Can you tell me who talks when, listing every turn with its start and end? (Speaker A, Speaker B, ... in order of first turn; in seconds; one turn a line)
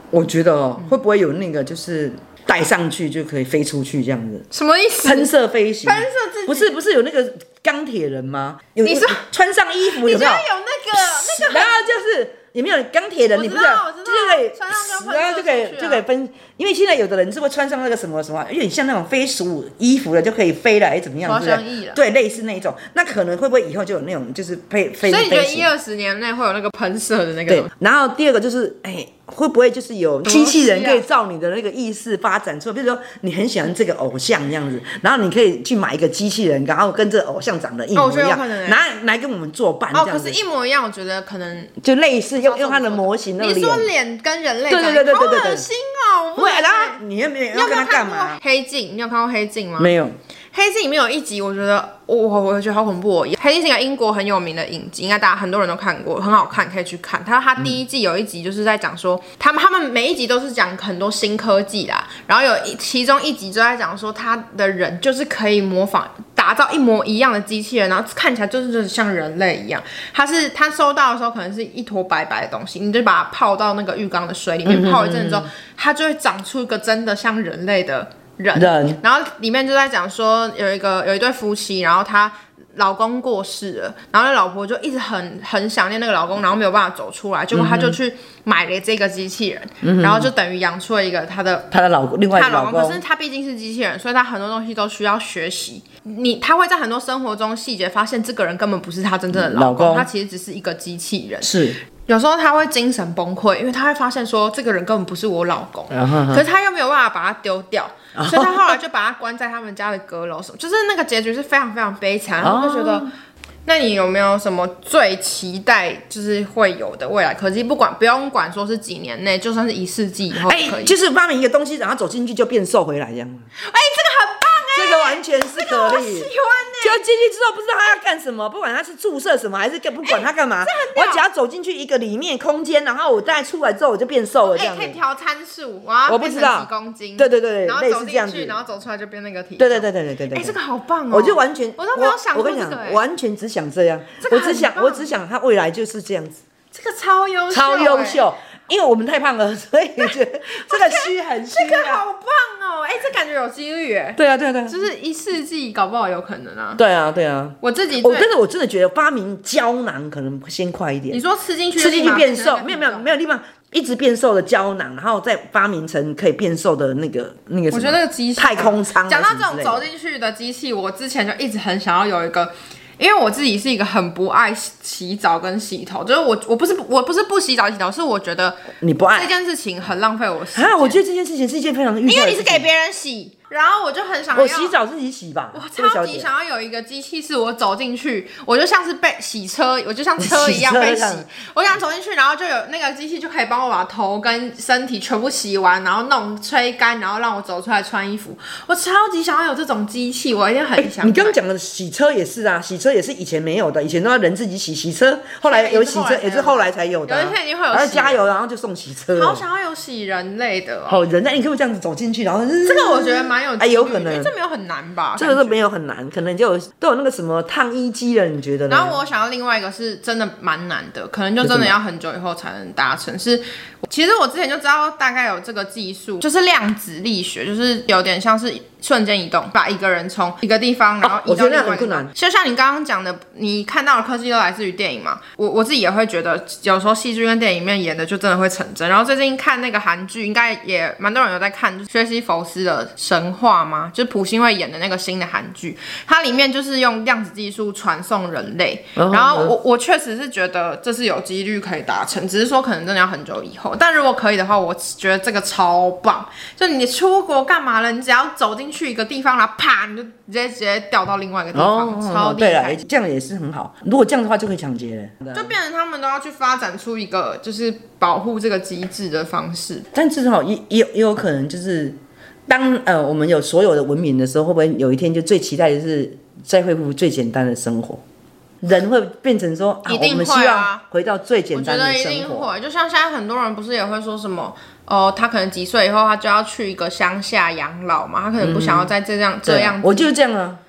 Speaker A: 0.1-4.5
Speaker B: 4.5-5.3
Speaker A: 5.0-25.7
Speaker B: 5.8-6.7
Speaker B: 8.8-9.2
Speaker B: 9.9-11.8
Speaker B: 13.3-16.1
Speaker B: 21.2-22.0
Speaker B: 25.0-27.7
Speaker A: 27.5-40.4
Speaker B: 30.2-31.0
Speaker B: 38.0-38.8
Speaker B: 39.9-41.7
Speaker A: 41.8-43.9
Speaker B: 42.4-49.9
Speaker A: 44.7-45.7
Speaker A: 46.4-48.4
Speaker A: 49.8-50.2
Speaker B: 50.5-91.7
Speaker A: 74.7-75.5
Speaker A: 78.5-79.0
Speaker A: 87.5-88.0
Speaker A: 89.8-90.3
Speaker A: 91.7-93.0
Speaker B: 92.3-113.1
Speaker A: 99.3-100.1
Speaker A: 101.4-101.8
Speaker A: 105.9-106.4
Speaker A: 108.2-108.7
Speaker A: 112.4-113.1
Speaker B: 113.7-121.0
Speaker A: 120.3-123.5
Speaker B: 123.6-127.0
Speaker A: 124.8-126.3
Speaker A: 126.8-135.0
Speaker B: 130.0-131.2
Speaker B: 134.4-143.0
Speaker A: 136.1-138.6
Speaker A: 139.6-140.6
Speaker A: 141.1-146.4
Speaker B: 144.2-145.1
Speaker B: 146.7-148.2
Speaker A: 147.5-152.0
Speaker B: 150.0-156.8
Speaker A: 154.2-154.8
Speaker A: 156.8-161.2
Speaker B: 157.6-158.3
Speaker B: 161.1-163.1
Speaker A: 161.8-169.8
Speaker B: 167.7-181.0
Speaker A: 178.8-179.3
Speaker A: 180.6-182.7
Speaker B: 182.1-184.8
Speaker A: 184.3-186.3
Speaker B: 185.5-201.4
Speaker A: 190.2-191.3
Speaker A: 200.8-209.4
Speaker B: 205.4-208.2
Speaker B: 209.1-211.0
Speaker A: 210.9-214.3
Speaker B: 212.6-215.6
Speaker A: 215.2-219.0
Speaker B: 218.7-262.8
Speaker A: 221.4-221.8
Speaker A: 231.0-232.1
Speaker A: 249.0-249.5
Speaker A: 261.5-265.5
Speaker B: 265.3-269.9
Speaker A: 269.9-278.0
Speaker A: 278.6-282.5
Speaker B: 279.9-280.8
Speaker B: 281.5-290.1
Speaker A: 288.4-288.9
Speaker A: 289.4-290.6